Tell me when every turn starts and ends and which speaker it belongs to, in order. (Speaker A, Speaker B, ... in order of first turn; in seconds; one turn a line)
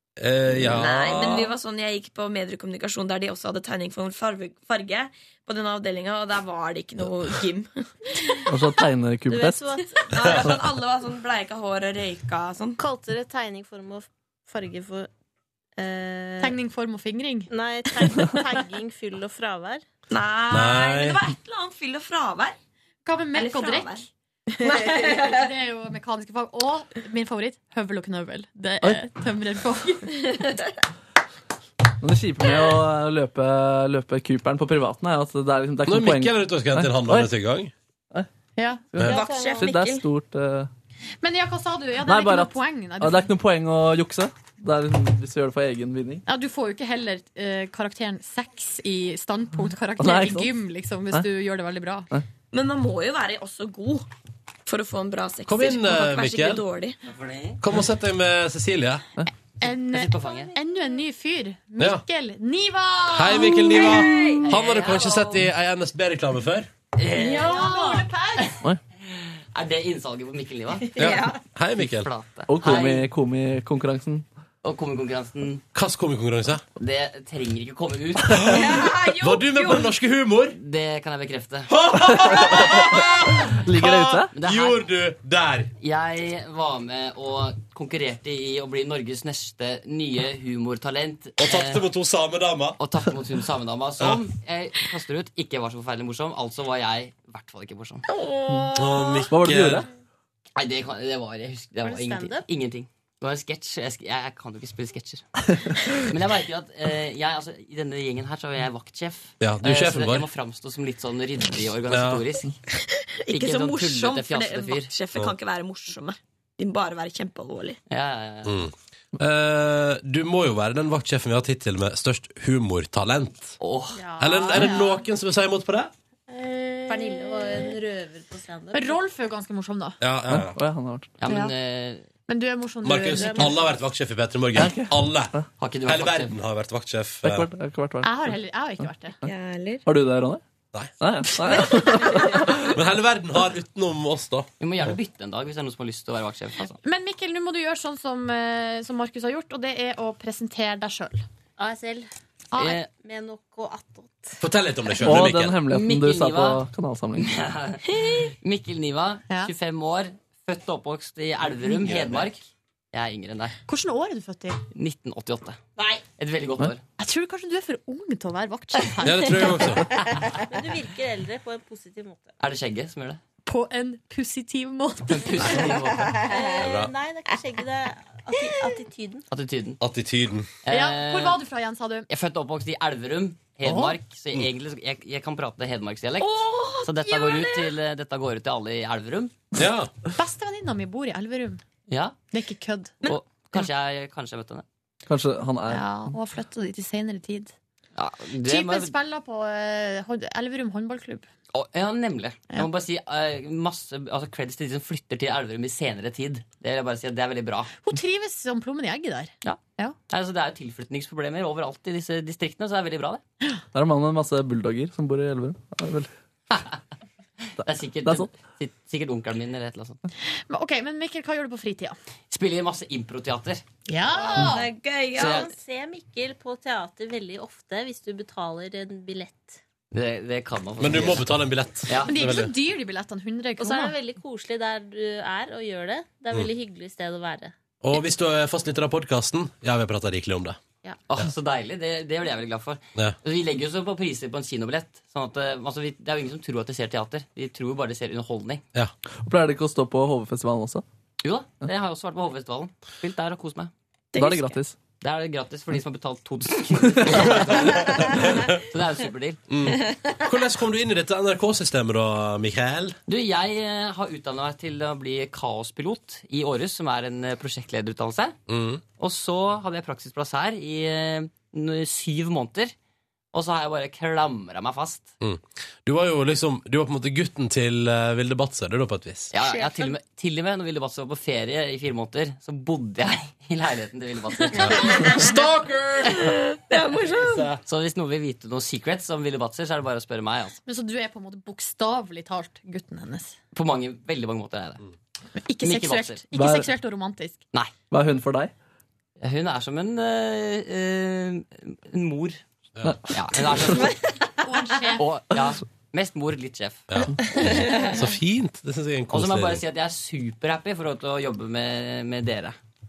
Speaker A: 0.2-1.5
Speaker B: 0.7-8.3
Speaker C: 8.5-9.7
Speaker D: 9.3-10.0
Speaker B: 10.1-12.8
Speaker D: 12.8-15.1
Speaker D: 15.8-16.5
Speaker E: 16.4-17.5
Speaker D: 17.5-19.8
Speaker E: 18.0-18.4
Speaker B: 20.1-22.6
Speaker A: 20.5-21.2
Speaker E: 23.0-30.4
Speaker B: 23.3-24.1
Speaker B: 24.6-25.5
Speaker C: 32.0-37.3
Speaker A: 35.9-37.7
Speaker E: 38.6-38.9
Speaker C: 38.9-40.7
Speaker B: 39.0-40.0
Speaker D: 39.1-39.6
Speaker E: 41.2-43.3
Speaker C: 42.0-46.2
Speaker E: 46.3-52.1
Speaker C: 50.0-50.5
Speaker B: 52.5-54.1
Speaker B: 54.6-57.0
Speaker A: 55.5-56.6
Speaker F: 57.1-57.6
Speaker A: 57.6-59.0
Speaker E: 59.6-64.2
Speaker F: 59.6-60.5
Speaker A: 63.1-66.7
Speaker B: 63.5-64.5
Speaker F: 64.5-65.1
Speaker F: 67.0-67.6
Speaker E: 67.2-68.5
Speaker D: 67.3-68.0
Speaker F: 69.5-71.0
Speaker B: 70.8-71.4
Speaker A: 71.0-72.1
Speaker F: 71.8-73.0
Speaker C: 72.5-74.2
Speaker F: 74.6-75.6
Speaker A: 75.7-76.6
Speaker F: 76.8-78.5
Speaker A: 78.3-80.6
Speaker B: 78.4-79.9
Speaker F: 80.5-81.7
Speaker A: 81.7-85.7
Speaker C: 82.0-82.9
Speaker C: 83.5-84.3
Speaker F: 84.3-84.8
Speaker F: 85.8-91.8
Speaker A: 91.4-92.8
Speaker F: 92.8-98.0
Speaker A: 94.0-94.2
Speaker B: 98.1-99.3
Speaker A: 98.7-99.9
Speaker C: 99.3-99.9
Speaker F: 100.5-105.2
Speaker D: 101.8-102.4
Speaker F: 106.0-112.5
Speaker A: 109.4-110.3
Speaker A: 111.9-112.2
Speaker B: 112.7-117.8
Speaker F: 113.3-114.9
Speaker F: 117.9-118.6
Speaker A: 118.4-123.5
Speaker F: 123.6-124.0
Speaker D: 124.0-125.0
Speaker E: 124.2-125.0
Speaker A: 124.2-125.9
Speaker E: 126.3-127.8
Speaker D: 126.9-129.0
Speaker E: 128.7-130.0
Speaker A: 130.0-130.6
Speaker C: 130.3-131.1
Speaker F: 131.2-132.0
Speaker E: 131.3-131.5
Speaker E: 132.3-133.7
Speaker A: 132.8-137.5
Speaker D: 133.1-133.6
Speaker C: 134.6-135.5
Speaker F: 135.6-136.4
Speaker C: 137.2-138.3
Speaker E: 138.0-139.2
Speaker B: 139.2-139.8
Speaker C: 139.8-140.4
Speaker C: 141.0-142.4
Speaker B: 141.2-142.7
Speaker A: 142.7-144.9
Speaker F: 144.6-146.8
Speaker E: 146.8-151.2
Speaker D: 151.6-152.1
Speaker E: 152.5-152.8
Speaker F: 152.6-152.9
Speaker D: 152.9-154.4
Speaker A: 154.4-155.6
Speaker C: 155.0-157.3
Speaker F: 155.7-156.6
Speaker F: 157.2-157.8
Speaker B: 157.9-158.3
Speaker F: 158.4-162.4
Speaker A: 161.7-162.3
Speaker F: 162.9-163.5
Speaker E: 163.7-164.6
Speaker F: 164.7-165.6
Speaker D: 165.8-166.0
Speaker F: 166.1-166.8
Speaker E: 167.0-169.9
Speaker A: 169.0-169.9
Speaker D: 170.4-172.3
Speaker F: 172.4-173.2
Speaker E: 173.4-175.5
Speaker F: 175.1-176.2
Speaker D: 176.3-179.2
Speaker A: 176.6-176.9
Speaker F: 179.3-179.8
Speaker A: 179.8-180.5
Speaker F: 180.6-181.4
Speaker E: 180.7-182.1
Speaker F: 182.1-189.4
Speaker E: 183.6-183.9
Speaker B: 186.2-187.7
Speaker A: 189.5-189.9
Speaker E: 190.2-191.6
Speaker F: 191.9-192.2
Speaker E: 192.3-192.9
Speaker B: 193.0-193.7
Speaker F: 193.0-194.6
Speaker C: 195.1-195.9
Speaker E: 195.7-197.5
Speaker F: 197.9-198.9
Speaker E: 198.4-201.3
Speaker F: 201.5-207.7
Speaker E: 207.8-209.9
Speaker F: 209.4-213.2
Speaker C: 213.7-216.1
Speaker F: 216.5-216.8
Speaker F: 217.6-220.0
Speaker C: 218.0-218.3
Speaker E: 220.2-221.9
Speaker F: 222.3-223.6
Speaker E: 223.9-224.7
Speaker B: 224.2-225.5
Speaker D: 225.2-229.6
Speaker F: 225.2-225.5
Speaker F: 229.9-231.3
Speaker A: 230.8-232.5
Speaker F: 231.9-232.1
Speaker E: 232.1-233.9
Speaker D: 233.6-237.5
Speaker A: 237.8-240.6
Speaker F: 241.1-248.6
Speaker C: 249.2-250.8
Speaker F: 251.2-253.7
Speaker B: 254.1-254.6
Speaker C: 254.1-254.8
Speaker F: 255.0-258.0
Speaker A: 257.2-258.5
Speaker F: 258.6-259.5
Speaker A: 259.5-263.0
Speaker F: 263.1-268.4
Speaker A: 268.5-268.8
Speaker F: 268.9-272.7
Speaker F: 273.3-275.1
Speaker A: 275.2-279.3
Speaker F: 279.3-284.8
Speaker B: 279.4-279.9
Speaker A: 284.6-286.3
Speaker B: 284.8-285.2
Speaker B: 286.1-287.5
Speaker A: 287.1-287.6
Speaker F: 287.6-290.6
Speaker E: 290.6-293.3
Speaker F: 293.5-294.8
Speaker E: 295.4-297.4
Speaker F: 295.6-296.2
Speaker C: 296.3-296.7
Speaker C: 297.9-298.5
Speaker F: 299.2-302.4
Speaker A: 302.8-303.5
Speaker F: 303.1-303.9
Speaker E: 304.4-305.0
Speaker F: 305.0-307.0
Speaker A: 306.9-309.6
Speaker B: 307.3-308.1
Speaker F: 309.1-312.6